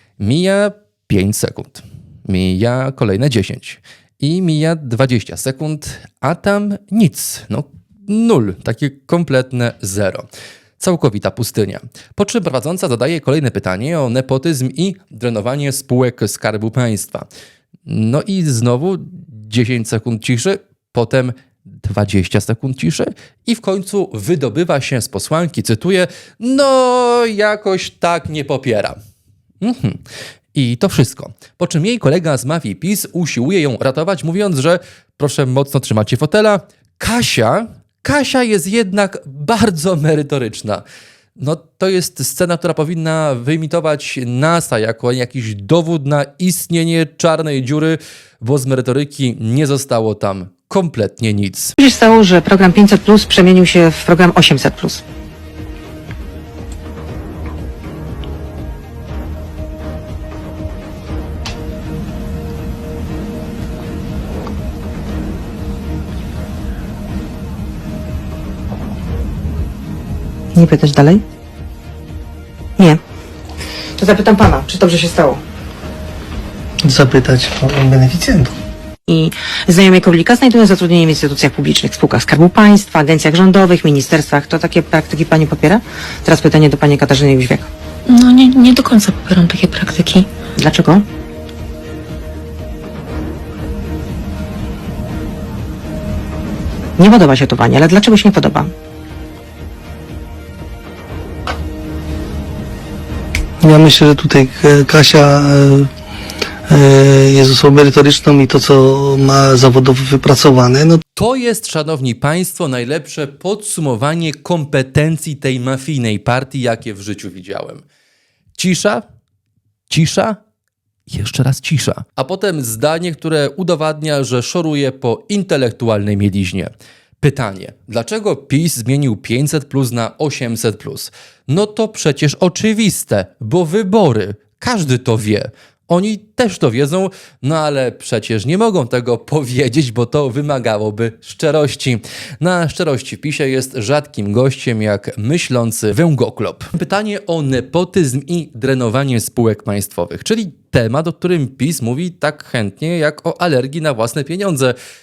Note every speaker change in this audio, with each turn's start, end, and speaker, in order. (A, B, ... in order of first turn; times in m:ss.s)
0:00.2-0:10.3 A
0:10.8-0:17.3 A
0:17.9-0:29.0 A
0:29.6-0:30.0 A
0:30.6-0:40.8 A
0:41.4-0:51.8 A
0:51.8-0:55.0 B
1:10.5-1:11.2 B
1:14.0-1:15.4 B
1:16.8-1:18.5 C
1:19.1-1:27.7 B
1:28.1-1:30.3 D
1:30.6-1:31.0 B
1:37.0-1:38.7 B
1:43.6-1:45.9 C
1:46.7-1:51.0 C
1:51.2-1:57.8 A
1:58.6-1:59.0 A
1:59.9-2:00.4 A
2:01.1-2:06.7 A
2:07.2-2:34.8 A